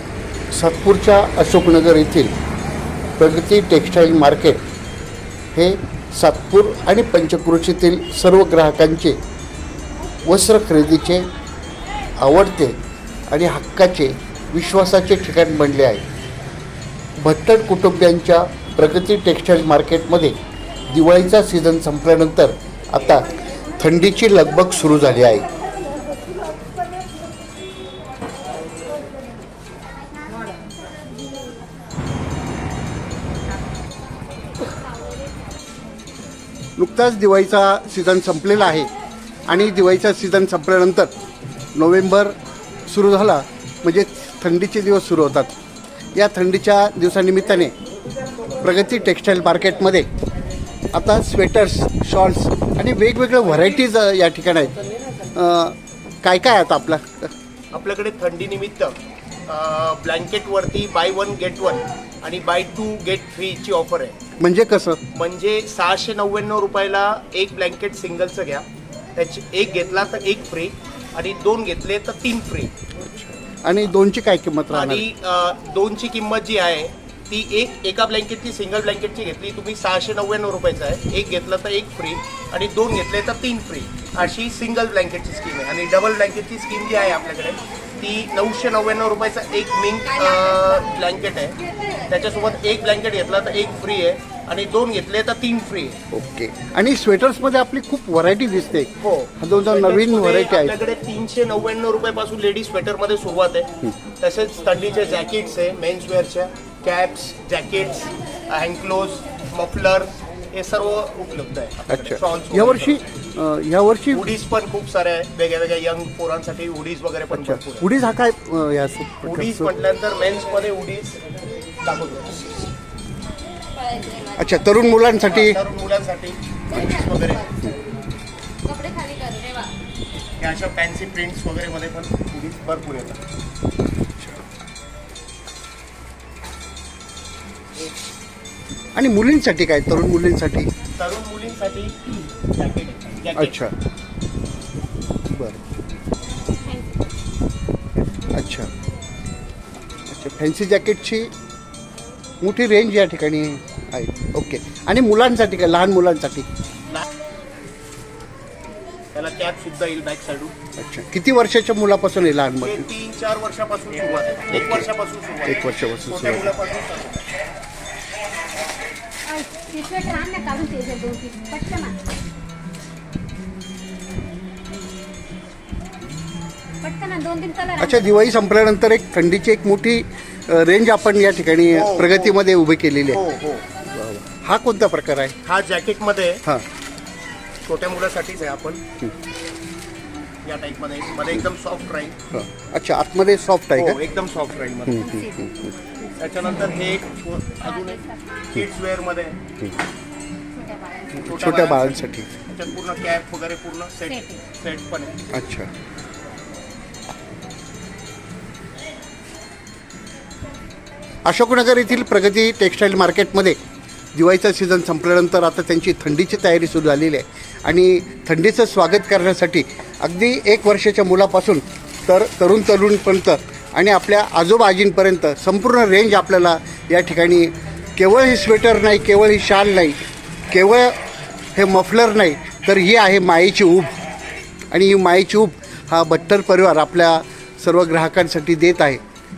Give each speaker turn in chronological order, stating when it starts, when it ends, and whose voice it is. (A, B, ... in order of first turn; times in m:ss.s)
0:00.5-0:02.3 A
0:03.2-0:04.6 A
0:05.5-0:09.2 A
0:10.2-0:11.3 A
0:12.2-0:12.8 A
0:13.3-0:16.0 A
0:17.2-0:20.4 A
0:20.9-0:25.5 A
0:36.8-0:38.9 A
0:39.5-0:41.1 A
0:41.8-0:45.6 A
0:46.2-0:47.7 A
0:48.6-0:50.1 A
0:50.9-0:54.8 A
0:55.3-0:57.3 A
0:57.7-1:04.2 B
1:04.4-1:05.0 A
1:05.1-1:12.7 B
1:13.6-1:15.0 A
1:14.7-1:36.0 B
1:36.1-1:40.7 A
1:39.0-1:53.0 B
1:51.9-1:54.2 A
1:54.1-1:57.9 B
1:57.3-1:59.7 A
1:59.2-2:01.2 B
2:01.8-2:02.4 B
2:04.4-2:05.6 A
2:05.2-2:07.6 B
2:10.4-2:13.2 B
2:19.0-2:20.7 A
2:21.0-2:23.7 B
2:23.4-2:23.8 A
2:25.3-2:25.6 A
2:26.5-2:27.1 C
2:28.3-2:28.7 A
2:30.1-2:31.3 A
2:32.4-2:36.5 A
2:39.1-2:40.5 B
2:40.8-2:42.8 A
2:42.6-2:47.3 B
2:44.5-2:44.9 A
2:45.5-2:46.5 A
2:49.3-2:52.0 C
2:56.8-2:58.1 C
2:57.8-3:03.2 A
3:01.7-3:02.4 B
3:03.1-3:03.6 B
3:03.8-3:05.4 A
3:05.4-3:06.4 B
3:07.6-3:08.8 B
3:10.4-3:12.2 B
3:12.3-3:14.0 A
3:13.8-3:15.1 B
3:14.9-3:15.8 A
3:15.0-3:15.5 C
3:16.0-3:19.4 B
3:20.6-3:21.2 C
3:21.2-3:22.3 A
3:21.2-3:25.3 B
3:24.1-3:24.4 C
3:25.3-3:25.7 A
3:31.3-3:33.6 A
3:34.2-3:51.0 A
3:51.6-3:54.0 A
3:54.7-3:59.0 A